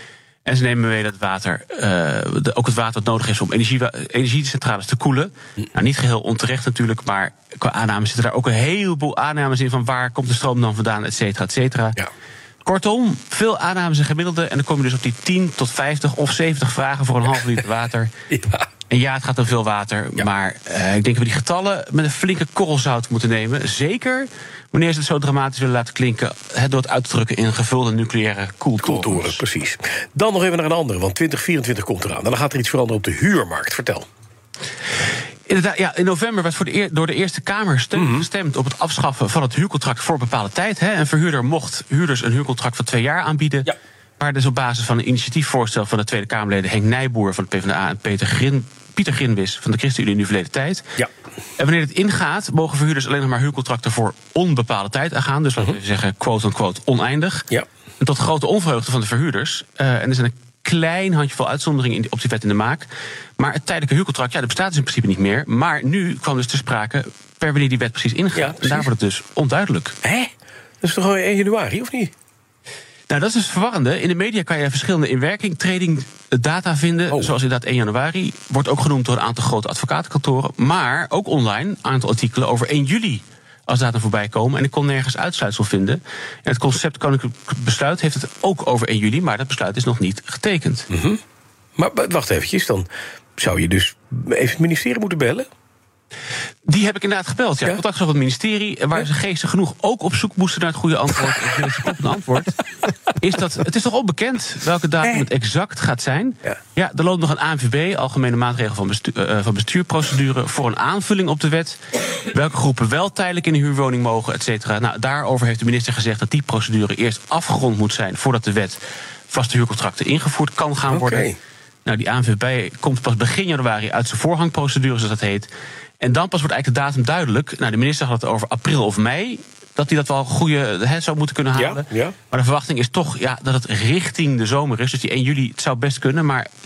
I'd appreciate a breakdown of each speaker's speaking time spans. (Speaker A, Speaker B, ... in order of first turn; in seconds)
Speaker A: 0.5-12.0, 12.7-18.1, 18.9-29.4, 35.5-50.9, 51.6-57.5, 58.0-70.0, 73.1-90.9, 96.7-102.6, 103.1-111.8, 112.3-121.3, 121.8-125.5, 126.0-136.5
Speaker B: 18.3-18.7, 28.8-34.1, 38.0-38.2, 68.3-68.9, 70.0-72.1, 90.9-91.2, 91.8-95.5, 120.9-121.4, 131.6-132.2